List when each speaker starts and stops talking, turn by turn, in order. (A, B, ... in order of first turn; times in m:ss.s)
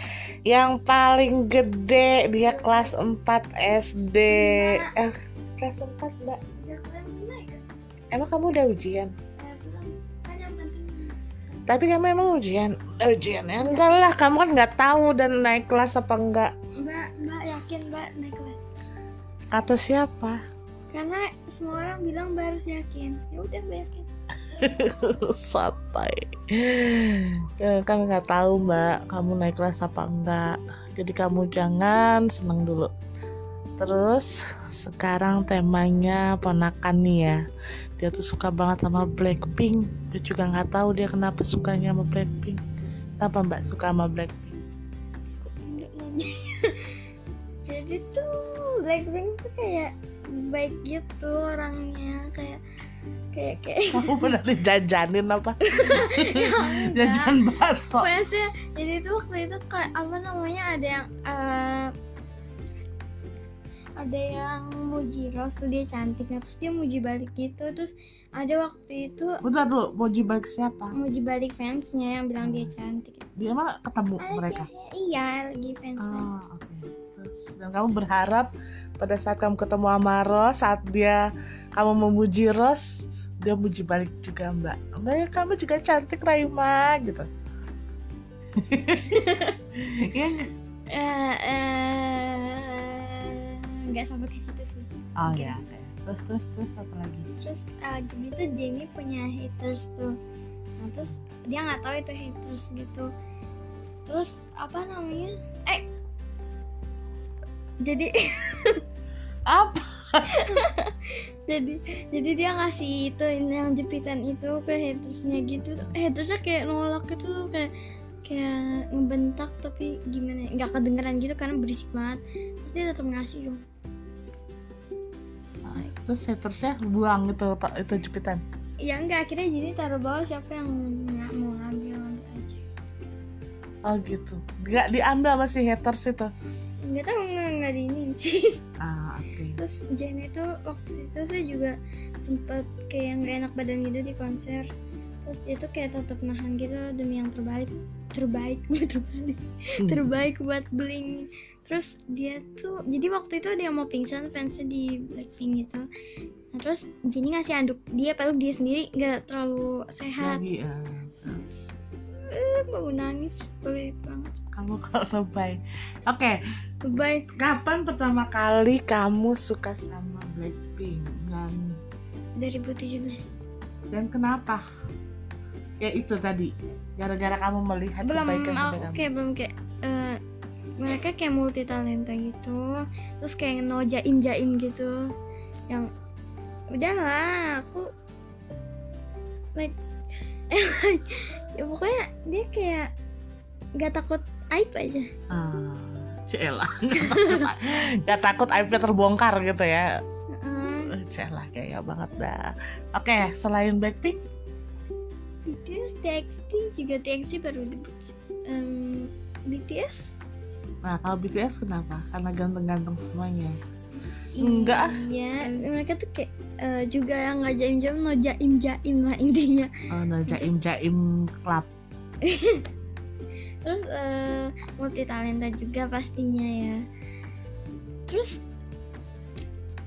0:00.5-0:06.4 A
0:02.4-0:03.0 B
0:04.3-0:04.9 B
0:06.5-0:07.6 B
0:08.1-0:09.1 A
0:09.4-0:11.2 B
0:11.7-0:16.5 A
0:16.8-0:18.7 B
0:19.5-0:20.4 A
0:20.9-0:24.1 B
0:24.5-0:32.9 A
0:33.8-0:37.4 A
0:38.0-0:42.6 A
0:43.2-0:44.6 A
0:45.5-0:47.0 B
0:47.6-0:52.6 B
0:53.3-0:54.3 B
0:53.9-0:58.1 A
0:55.7-0:57.4 B
0:58.0-1:01.9 B
1:04.0-1:09.4 B
1:09.4-1:11.0 A
1:10.9-1:13.5 B
1:12.4-1:12.7 A
1:13.4-1:14.7 A
1:14.2-1:16.3 B
1:16.0-1:21.2 A
1:21.8-1:27.3 A
1:28.6-1:30.5 A
1:29.1-1:29.5 B
1:30.9-1:35.6 B
1:35.2-1:37.3 A
1:37.4-1:40.2 B
1:40.8-1:43.1 B
1:44.1-1:45.9 B
1:47.8-1:48.8 B
1:49.5-1:50.6 A
1:50.3-1:57.7 B
1:58.2-2:03.6 B
2:05.6-2:08.4 A
2:08.8-2:12.6 B
2:13.9-2:16.3 A
2:16.8-2:18.6 B
2:18.8-2:19.6 A
2:19.6-2:24.7 B
2:25.2-2:35.8 B
2:36.5-2:40.4 B
2:40.2-2:41.4 A
2:42.1-2:44.4 B
2:44.6-2:46.4 A
2:46.8-2:47.3 B
2:47.4-2:51.8 A
2:52.4-2:53.3 B
2:53.9-2:54.6 A
2:55.8-2:59.1 A
2:58.0-3:00.2 B
3:00.8-3:02.6 B
3:03.2-3:05.0 B
3:06.7-3:07.9 B
3:10.5-3:12.9 B
3:13.8-3:15.1 B
3:15.3-3:19.9 A
3:17.0-3:17.5 B
3:20.4-3:20.9 B
3:20.7-3:24.2 A
3:25.5-3:30.1 B
3:30.8-3:33.6 A
3:34.3-3:39.7 B
3:34.4-3:35.0 A
3:39.9-3:41.7 A
3:40.3-3:40.6 B
3:42.2-3:42.7 B
3:43.6-3:46.8 B
3:48.1-3:48.4 B